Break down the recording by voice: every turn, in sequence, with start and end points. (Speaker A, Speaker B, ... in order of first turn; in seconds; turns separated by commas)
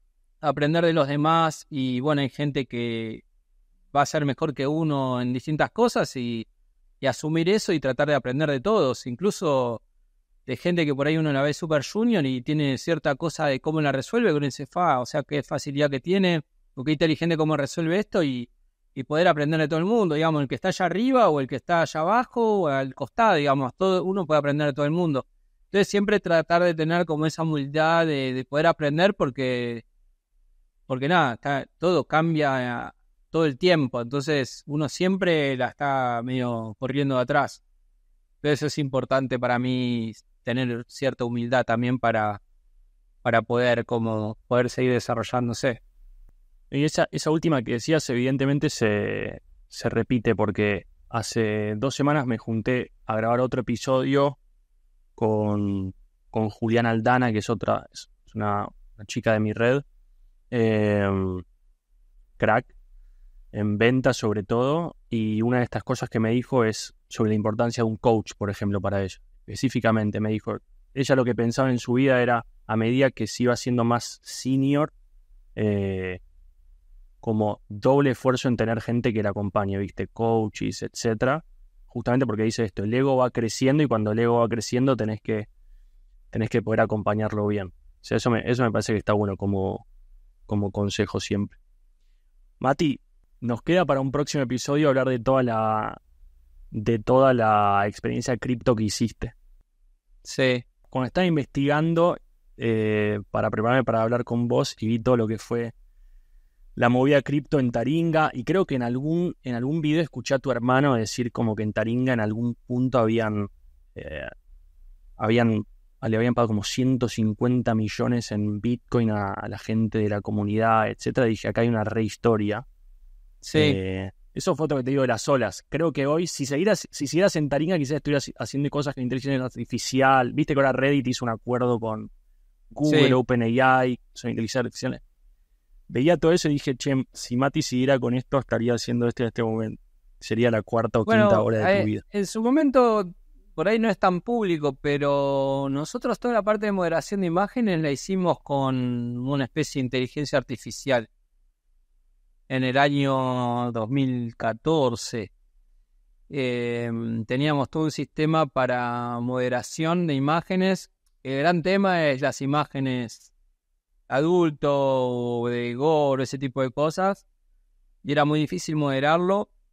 Speaker A: 0.4-3.2, Speaker A: 3.9-6.5, Speaker A: 7.0-9.8, Speaker A: 10.4-29.8, Speaker A: 30.9-37.6, Speaker A: 38.4-42.4, Speaker A: 43.2-45.8, Speaker B: 46.7-54.4, Speaker B: 55.2-59.8, Speaker B: 60.5-61.4, Speaker B: 62.4-62.7, Speaker B: 63.5-74.9, Speaker B: 75.5-76.2, Speaker B: 77.2-85.5, Speaker B: 86.3-89.8, Speaker B: 90.5-91.6, Speaker B: 92.6-96.0, Speaker B: 96.7-99.3, Speaker A: 100.2-100.6, Speaker B: 100.9-105.7, Speaker B: 106.8-114.3, Speaker B: 115.2-122.6, Speaker A: 123.4-123.8, Speaker B: 123.5-132.1, Speaker B: 132.7-135.0, Speaker A: 132.8-133.2, Speaker B: 135.9-142.0, Speaker A: 141.1-151.1, Speaker A: 152.5-155.3, Speaker A: 156.3-163.3, Speaker A: 164.1-167.2, Speaker A: 168.0-169.5